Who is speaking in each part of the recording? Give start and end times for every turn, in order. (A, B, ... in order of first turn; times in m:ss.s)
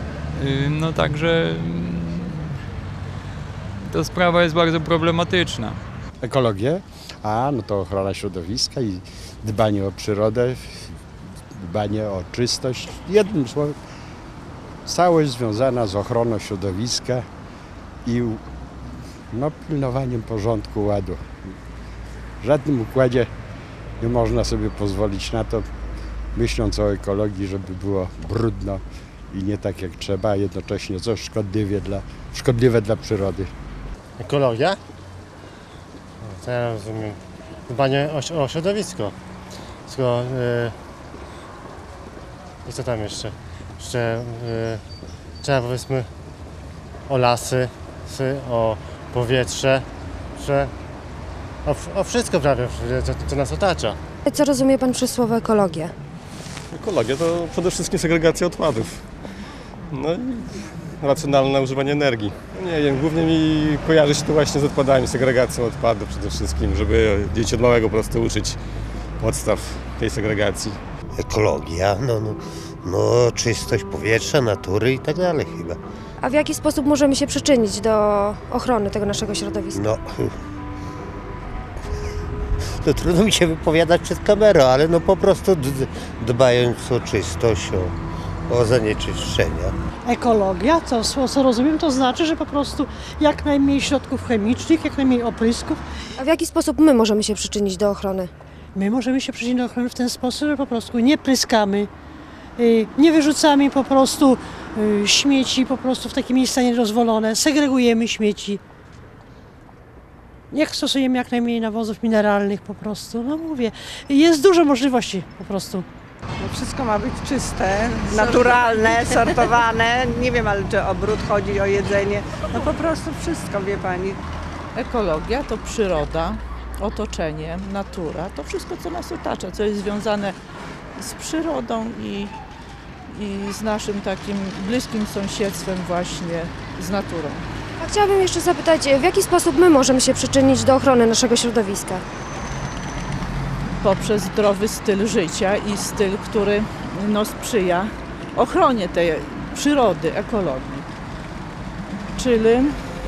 0:00.3-0:02.6 A
0:03.8-0:05.8 A
0:06.2-0:10.8 B
0:11.6-0:13.8 B
0:14.9-0:17.2 B
0:18.0-0:18.4 B
0:19.3-0:21.2 B
0:22.4-0:23.3 B
0:24.0-0:25.7 B
0:26.4-0:33.5 B
0:34.2-0:34.8 C
0:36.4-0:37.2 C
0:37.7-0:39.1 C
0:39.9-0:40.7 C
0:42.7-0:43.3 C
0:43.8-0:44.8 C
0:45.4-0:46.0 C
0:47.1-0:49.8 C
0:50.4-0:50.7 C
0:51.7-0:54.0 C
0:54.3-0:55.9 D
0:56.8-0:58.9 E
1:00.0-1:00.4 E
1:01.0-1:08.6 E
1:09.2-1:10.8 E
1:11.2-1:15.8 F
1:16.2-1:19.8 D
1:19.7-1:20.3 F
1:22.8-1:27.9 F
1:28.5-1:29.7 F
1:30.1-1:35.8 G
1:36.2-1:38.3 D
1:38.8-1:41.9 G
1:42.6-1:48.6 G
1:50.5-1:55.8 G
1:56.4-2:04.2 H
2:04.8-2:10.4 I
2:11.0-2:12.3 I
2:13.1-2:17.4 I
2:17.8-2:22.0 D
2:23.8-2:30.9 I
2:32.2-2:32.8 I